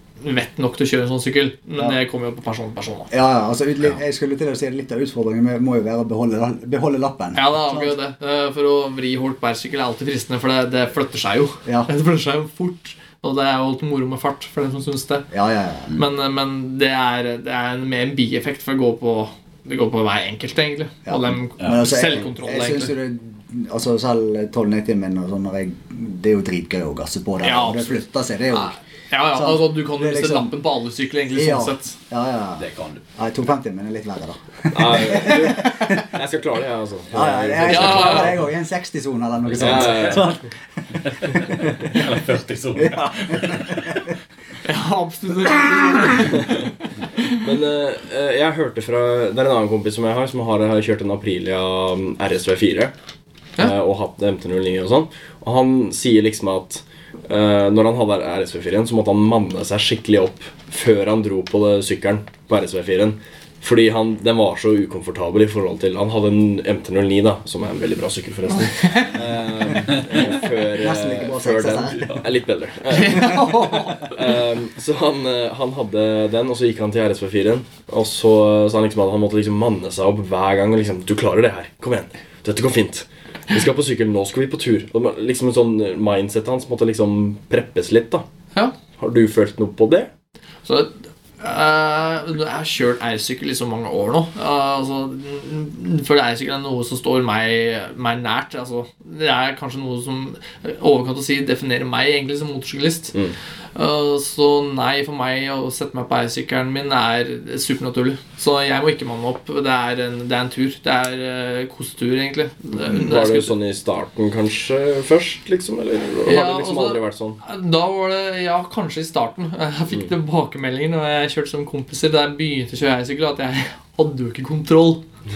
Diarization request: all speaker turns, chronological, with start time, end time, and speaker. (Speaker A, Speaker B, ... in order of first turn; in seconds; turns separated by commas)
Speaker A: 0.2-3.1, Speaker B: 3.1-8.0, Speaker A: 7.3-15.2, Speaker B: 15.3-15.9, Speaker A: 15.9-22.9, Speaker B: 21.1-28.8, Speaker A: 27.4-28.0, Speaker A: 28.5-31.9, Speaker B: 29.3-30.6, Speaker B: 31.3-36.1, Speaker C: 32.6-33.0, Speaker D: 34.7-38.4, Speaker B: 37.1-42.0, Speaker A: 37.6-38.4, Speaker C: 39.5-40.3, Speaker D: 39.6-40.3, Speaker C: 41.0-44.1, Speaker B: 42.8-44.0, Speaker A: 44.6-46.6, Speaker D: 47.4-52.9, Speaker D: 53.6-88.2, Speaker A: 68.8-69.1, Speaker C: 69.2-70.2, Speaker B: 70.7-72.2, Speaker A: 72.9-74.1, Speaker D: 89.0-90.1, Speaker A: 90.6-103.1, Speaker A: 103.7-113.5, Speaker D: 112.8-117.4, Speaker A: 116.2-125.0